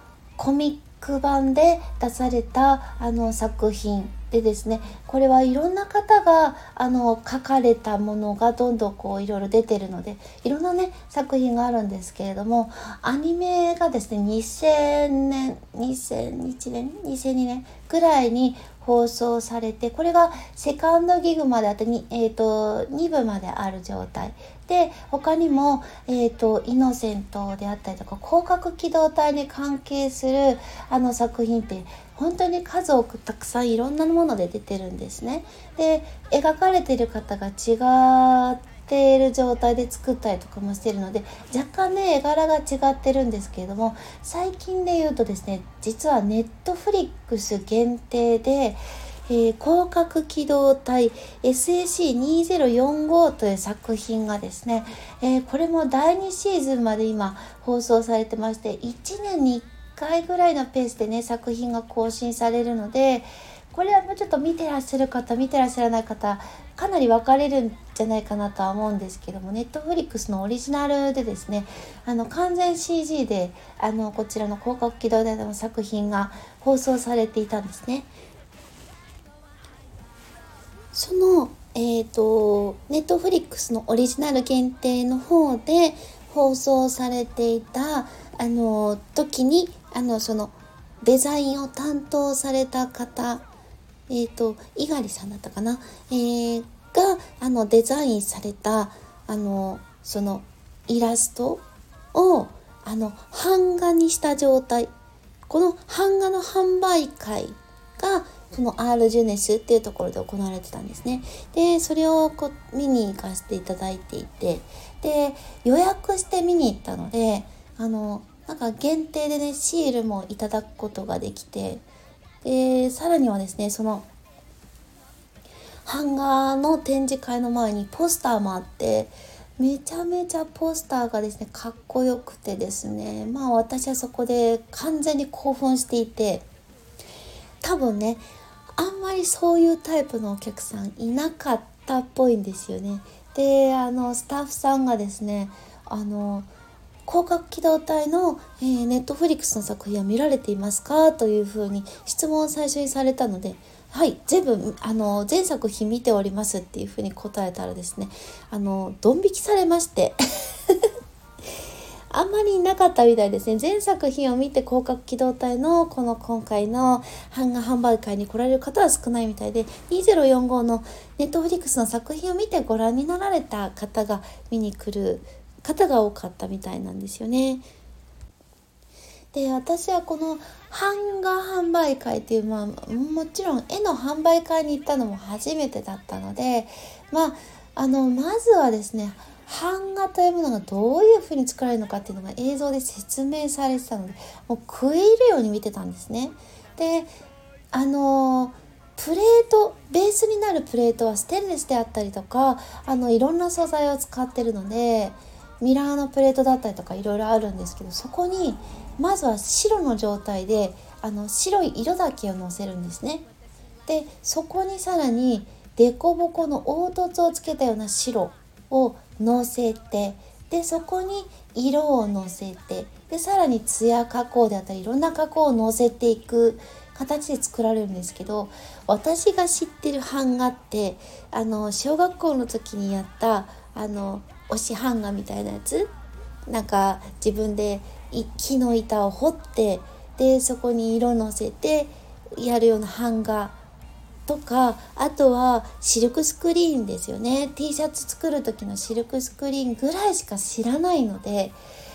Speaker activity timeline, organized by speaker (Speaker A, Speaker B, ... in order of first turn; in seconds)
Speaker A: 0.4-78.1, 80.9-93.4, 94.1-104.9, 105.5-121.8, 122.4-124.1, 125.8-136.4, 137.6-146.5, 147.1-160.2, 162.1-177.7, 179.3-197.1, 197.7-213.2, 213.9-235.9, 236.5-243.6, 244.3-251.6